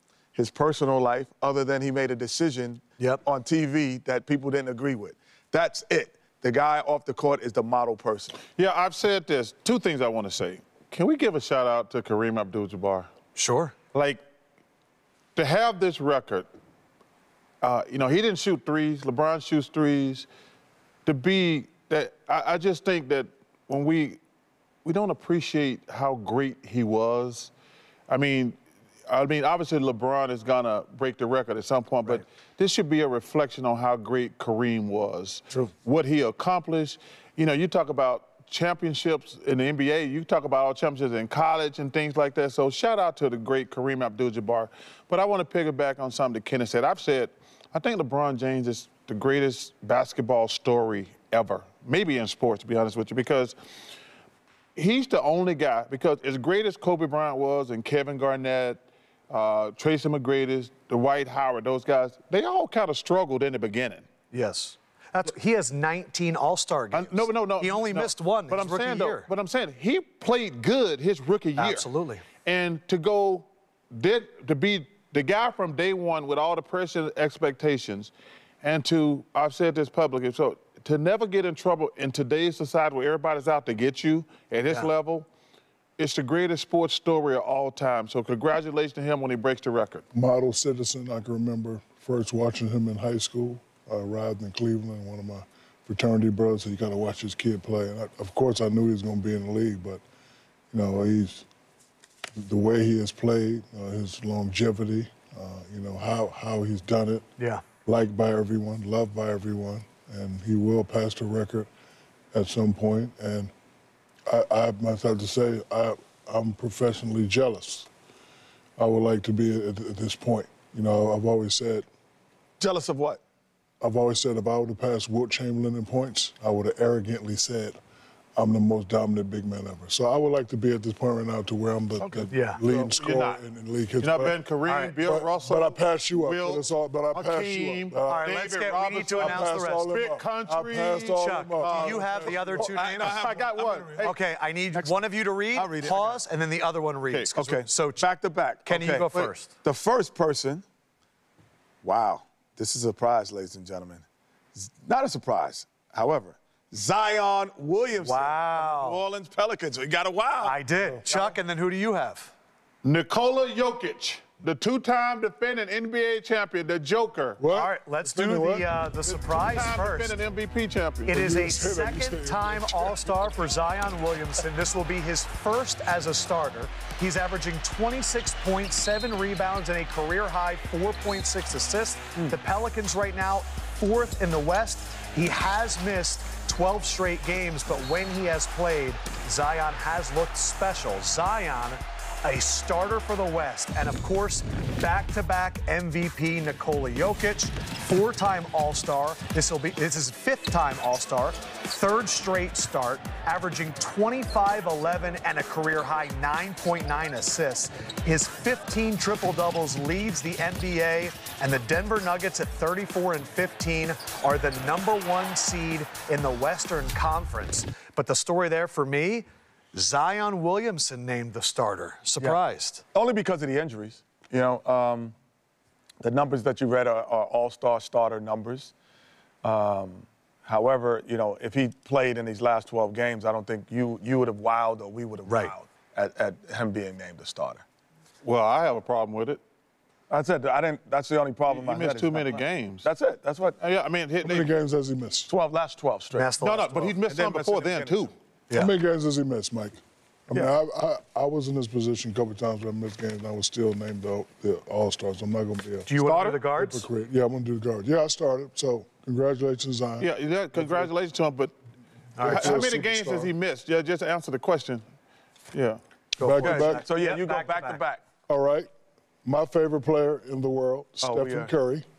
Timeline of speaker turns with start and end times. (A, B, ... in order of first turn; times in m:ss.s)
0:00.4-0:08.4 A
0:08.5-0:13.1 B
0:13.4-0:13.8 C
0:13.9-0:14.2 B
0:15.4-0:16.5 B
0:17.6-0:20.3 B
0:21.1-0:24.2 B
0:24.8-0:27.5 B
0:28.1-0:53.6 B
0:54.8-1:04.0 B
1:04.3-1:09.3 C
1:06.9-1:11.9 B
1:11.6-1:12.3 C
1:12.4-1:25.3 B
1:26.0-1:30.0 B
1:30.1-1:40.0 D
1:40.7-1:41.5 D
1:42.4-1:47.3 D
1:47.4-1:47.7 C
1:47.8-1:51.7 D
1:52.3-1:53.5 D
1:54.3-1:57.9 D
1:58.8-2:01.9 D
2:02.6-2:03.2 A
2:03.8-2:07.8 D
2:08.4-2:14.4 D
2:12.1-2:12.6 C
2:12.1-2:13.4 B
2:14.0-2:24.2 B
2:14.7-2:15.0 C
2:15.0-2:18.3 D
2:18.1-2:19.9 C
2:19.2-2:22.8 D
2:21.2-2:28.1 C
2:22.6-2:23.9 A
2:25.5-2:26.2 A
2:27.3-2:30.6 A
2:28.6-2:29.6 C
2:31.8-2:34.0 A
2:34.6-2:40.6 A
2:38.0-2:39.0 C
2:40.4-2:42.3 C
2:42.8-2:47.4 B
2:47.4-2:48.7 D
2:47.5-2:50.2 C
2:49.1-2:51.2 B
2:51.0-3:42.8 C
2:51.1-2:53.4 D
3:42.9-3:45.1 A
3:46.0-3:48.7 A
3:49.4-3:57.6 A
3:55.3-3:55.5 C
3:58.2-3:59.4 B
4:00.1-4:03.6 A
4:01.5-4:02.9 B
4:03.6-4:04.5 B
4:04.2-4:05.3 D
4:05.3-4:06.3 A
4:06.1-4:07.0 C
4:06.4-4:08.1 B
4:07.0-4:08.1 A
4:08.5-4:15.9 D
4:15.9-4:16.9 C
4:16.0-4:16.4 A
4:16.5-4:20.9 D
4:20.0-4:21.5 B
4:22.2-4:22.5 C
4:22.2-4:23.3 D
4:22.2-4:24.8 B
4:25.5-4:25.8 B
4:26.1-4:27.8 C
4:26.2-4:26.8 D
4:26.4-4:28.0 A
4:28.3-4:28.7 D
4:29.2-4:31.8 D
4:31.0-4:31.5 A